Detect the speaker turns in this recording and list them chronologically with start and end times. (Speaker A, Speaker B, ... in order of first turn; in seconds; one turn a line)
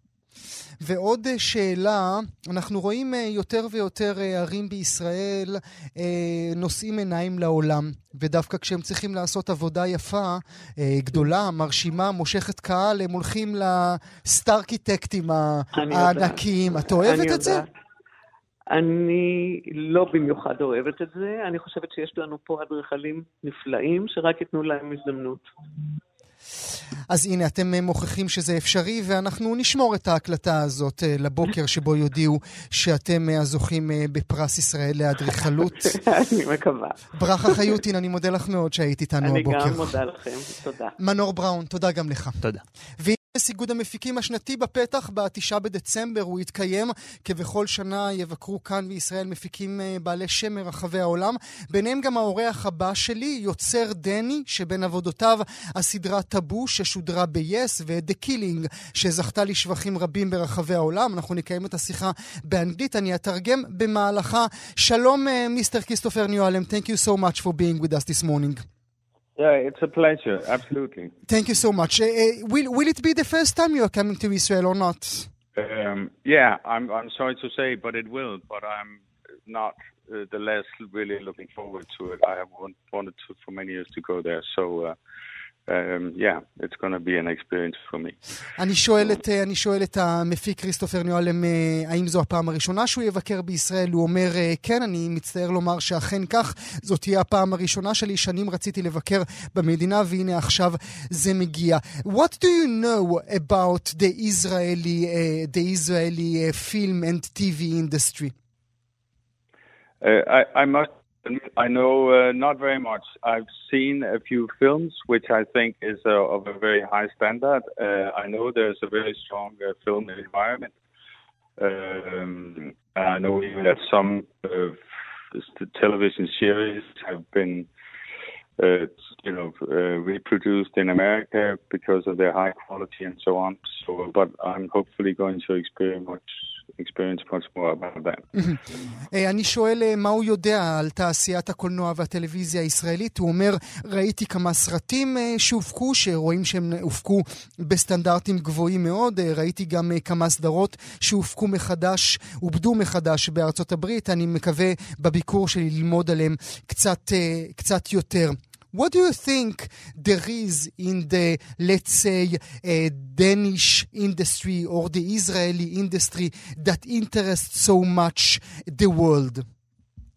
Speaker A: 0.8-17.6
Speaker B: 15.7-17.7
Speaker B: 18.7-25.4
Speaker A: 27.1-35.9
Speaker B: 35.4-37.8
Speaker A: 37.2-39.9
Speaker B: 39.2-41.0
Speaker A: 41.0-42.4
Speaker A: 43.0-68.6
Speaker C: 69.4-71.1
Speaker A: 71.3-75.3
Speaker C: 75.5-85.0
Speaker C: 85.7-88.2
Speaker A: 88.5-108.3
Speaker C: 110.0-120.7
Speaker C: 121.6-124.8
Speaker C: 125.3-127.7
Speaker C: 128.6-138.2
Speaker A: 138.3-169.4